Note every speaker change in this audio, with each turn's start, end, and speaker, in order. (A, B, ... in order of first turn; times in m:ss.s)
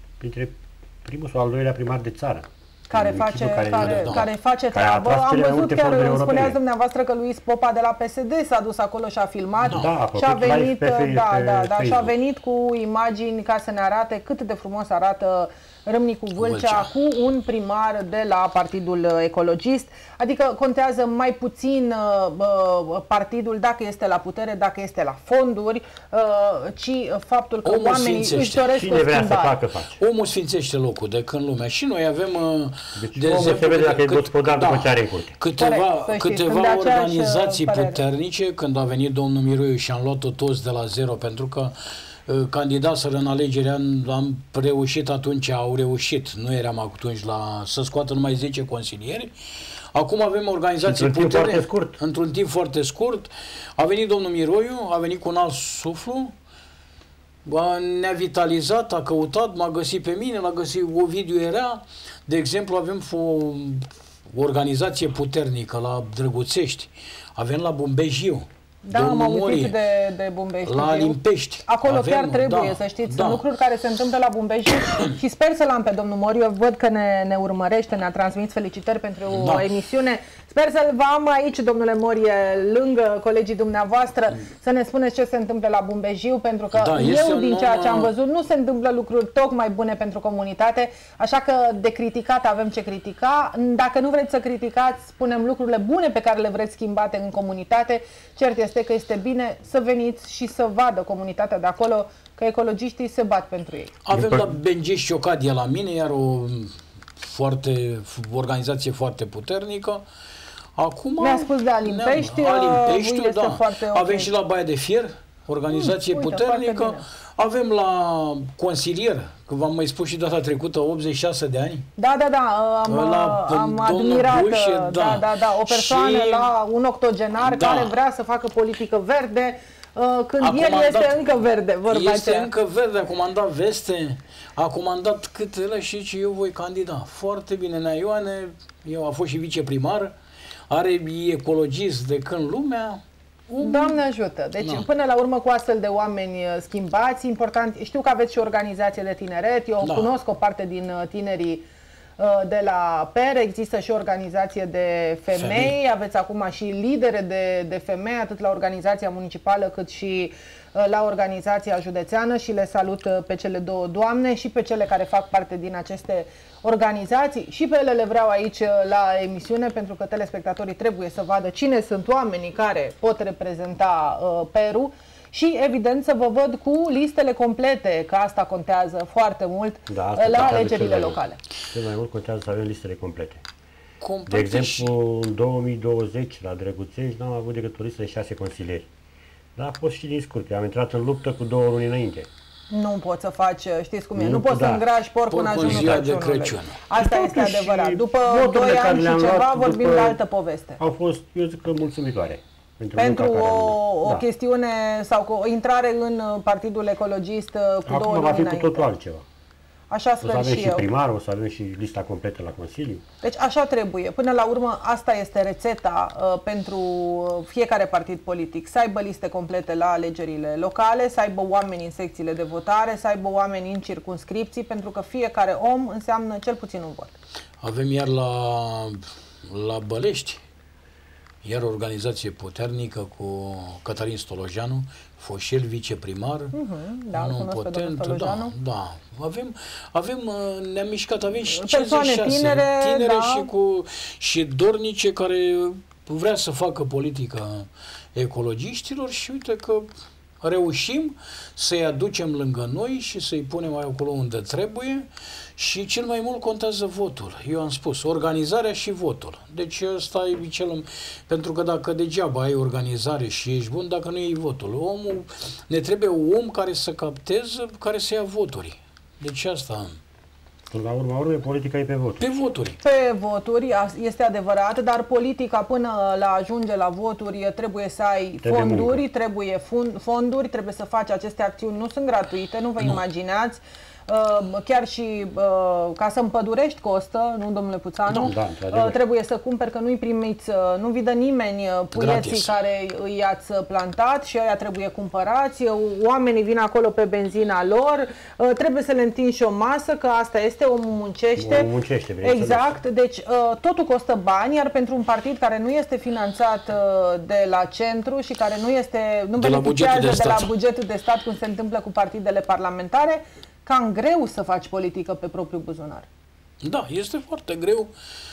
0:00.2-0:06.6 A
0:02.9-0:29.6 B
0:03.8-0:04.3 C
0:09.7-0:12.1 A
0:16.4-0:16.9 C
0:27.6-0:28.7 C
0:28.8-0:30.0 A
0:30.0-0:41.7 C
0:33.0-0:35.3 A
0:35.6-0:38.0 B
0:42.3-0:49.3 C
0:49.9-0:56.3 C
0:50.8-0:52.0 A
0:57.4-1:09.8 C
1:08.9-1:44.0 B
1:10.7-1:13.5 C
1:14.8-1:15.1 C
1:19.3-1:19.7 C
1:26.7-1:28.1 C
1:44.1-1:50.0 C
1:44.1-1:44.5 A
1:50.8-2:01.9 C
1:51.2-1:54.3 B
1:55.7-1:57.0 B
2:02.0-2:12.5 B
2:02.9-2:06.5 C
2:07.4-2:08.0 C
2:10.4-2:11.2 C
2:11.9-2:20.1 C
2:20.7-2:24.0 C
2:23.6-2:31.7 B
2:24.6-2:24.9 C
2:29.8-2:30.1 C
2:32.2-3:01.4 B
2:35.4-2:35.7 C
2:59.9-3:01.2 A
3:01.7-3:03.4 A
3:04.0-3:04.9 C
3:04.3-3:08.9 A
3:09.6-3:12.3 A
3:12.7-3:20.8 B
3:14.2-3:14.8 A
3:15.3-3:16.8 C
3:15.6-3:16.0 A
3:16.9-3:20.2 A
3:20.8-3:24.2 A
3:23.0-3:28.9 B
3:27.9-3:29.2 A
3:29.9-3:30.9 B
3:30.2-3:33.0 A
3:33.2-3:47.2 B
3:47.6-3:50.4 C
3:51.4-3:56.5 C
3:56.5-3:58.5 B
3:57.1-4:09.9 C
4:01.5-4:03.5 B
4:10.4-4:30.0 C
4:30.7-4:32.3 A
4:32.2-4:32.8 C
4:32.8-5:01.7 B
4:38.4-4:39.0 A
4:48.1-4:49.0 A
4:52.0-4:52.5 C
5:01.4-5:02.7 A
5:02.2-5:16.1 B
5:09.4-5:10.5 C
5:16.6-5:17.9 C